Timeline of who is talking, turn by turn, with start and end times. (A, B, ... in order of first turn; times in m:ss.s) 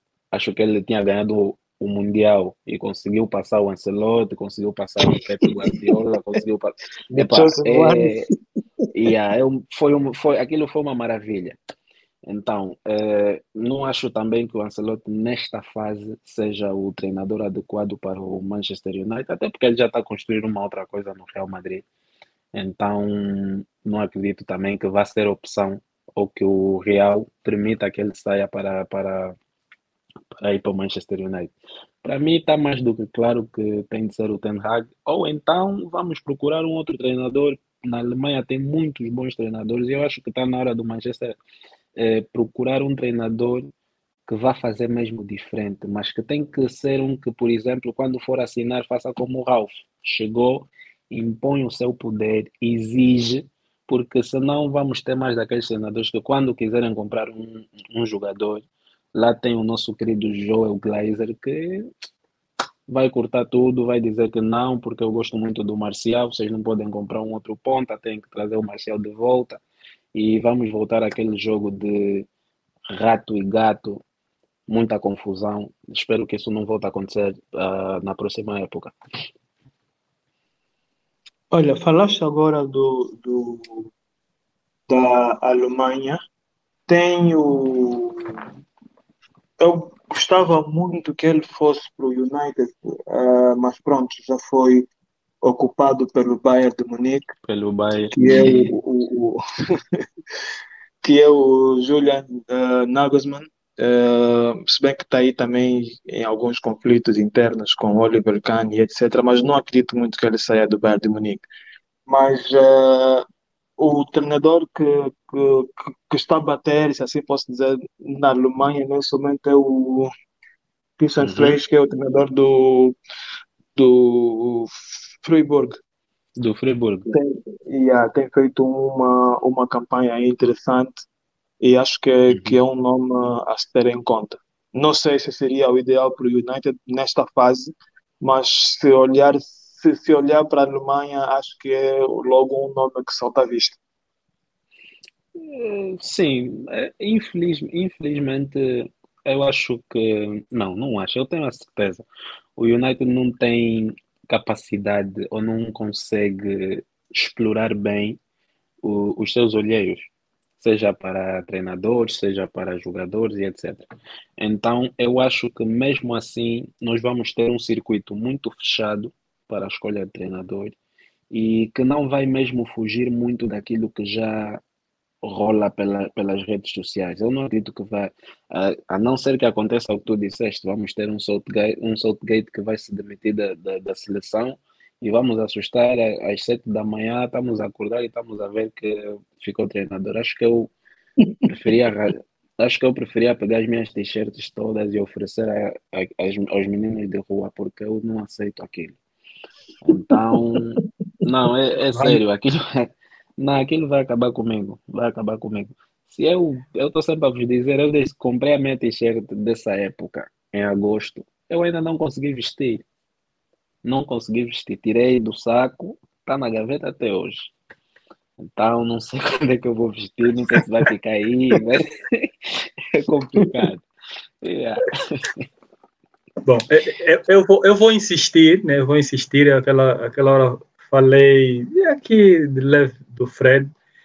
0:00.3-0:08.3 A
0:07.1-0:08.3 B
0:08.9-0:11.6 A
0:12.2-0:21.8 A
0:22.5-0:29.4 A
0:30.4-0:41.4 A
0:42.0-0:43.7 A
0:44.3-1:01.9 A
1:02.9-1:09.6 A
1:10.1-1:12.3 A
1:12.9-1:14.0 A
1:14.7-1:19.0 A
1:21.5-1:23.9 B
1:24.9-1:26.2 B
1:26.9-1:28.4 B
1:29.6-1:34.9 B
1:35.4-1:37.3 B
1:37.4-1:38.7 A
1:38.1-1:39.4 B
1:41.0-1:51.5 B
1:52.0-1:53.2 B
1:53.8-2:00.1 B
2:01.0-2:03.0 B
2:01.2-2:01.6 A
2:03.8-2:05.8 B
2:06.4-2:07.1 A
2:07.1-2:11.0 B
2:11.6-2:23.8 B
2:12.3-2:12.6 A
2:25.3-2:32.0 A
2:32.6-2:38.2 A
2:38.8-2:50.8 A
2:51.3-2:54.6 A
2:55.2-3:10.7 A
3:11.5-3:19.0 A
3:19.8-3:32.8 A
3:21.9-3:22.2 C
3:33.8-3:37.5 A
3:38.4-3:43.8 A
3:44.4-3:45.5 A
3:46.4-3:53.7 C